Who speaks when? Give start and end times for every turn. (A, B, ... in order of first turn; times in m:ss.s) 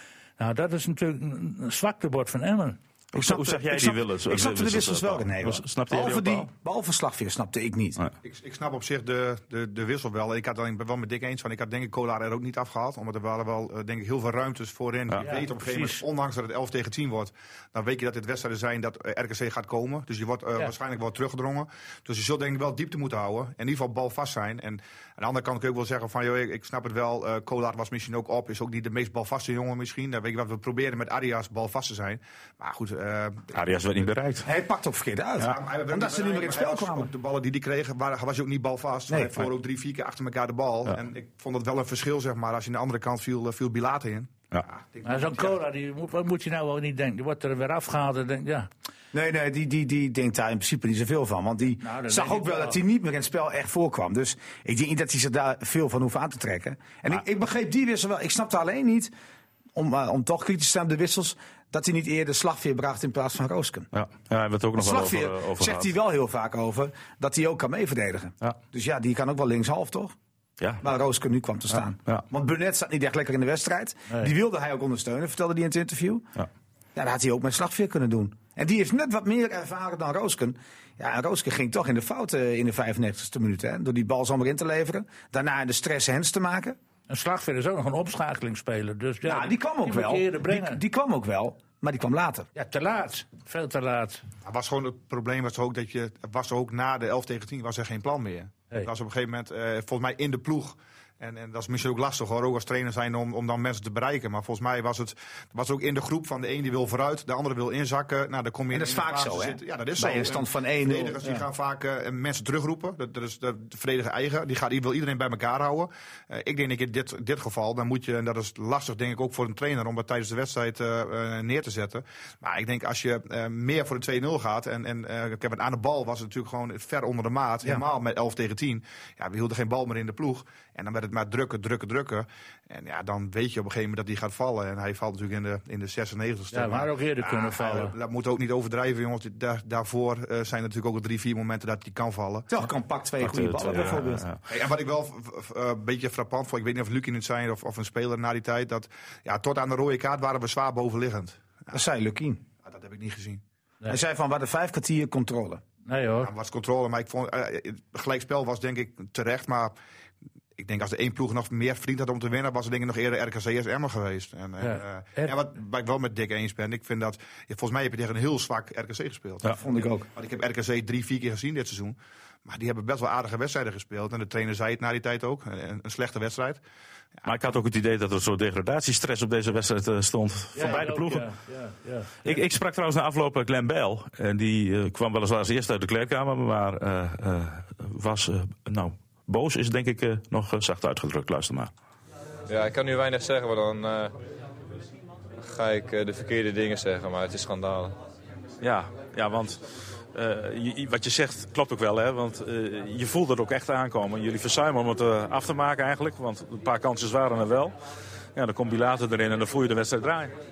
0:00.4-0:02.8 A
0:03.1-0:06.5 B
0:03.1-0:08.0 C
0:08.2-0:33.5 D
0:15.2-0:16.0 A
0:33.5-0:34.5 B
0:34.4-0:37.1 C
0:35.4-0:45.5 D
0:39.1-0:39.5 C
0:45.0-0:48.7 A
0:49.1-0:59.1 C
0:51.8-0:52.8 A
0:59.7-1:03.9 C
1:03.9-1:05.9 B
1:04.8-1:10.2 C
1:10.8-1:16.3 C
1:11.7-1:12.2 B
1:16.9-1:26.8 C
1:27.1-1:30.8 A
1:29.2-1:32.5 C
1:32.5-1:34.2 A
1:34.4-2:22.5 D
1:48.7-1:51.4 C
2:16.5-2:17.9 A
2:22.5-2:24.2 C
2:23.2-2:24.4 B
2:24.5-2:31.7 D
2:31.7-2:32.4 C
2:32.6-2:33.4 D
2:33.9-2:35.6 C
2:35.8-2:36.3 A
2:36.2-2:39.7 D
2:40.6-2:56.6 D
2:44.6-2:45.3 A
2:49.4-2:50.1 C
2:57.2-3:01.3 B
3:00.5-3:02.4 A
3:02.2-3:11.7 B
3:12.5-3:14.1 E
3:15.4-3:18.0 E
3:18.6-3:19.6 B
3:20.1-3:27.7 B
3:28.4-3:30.3 B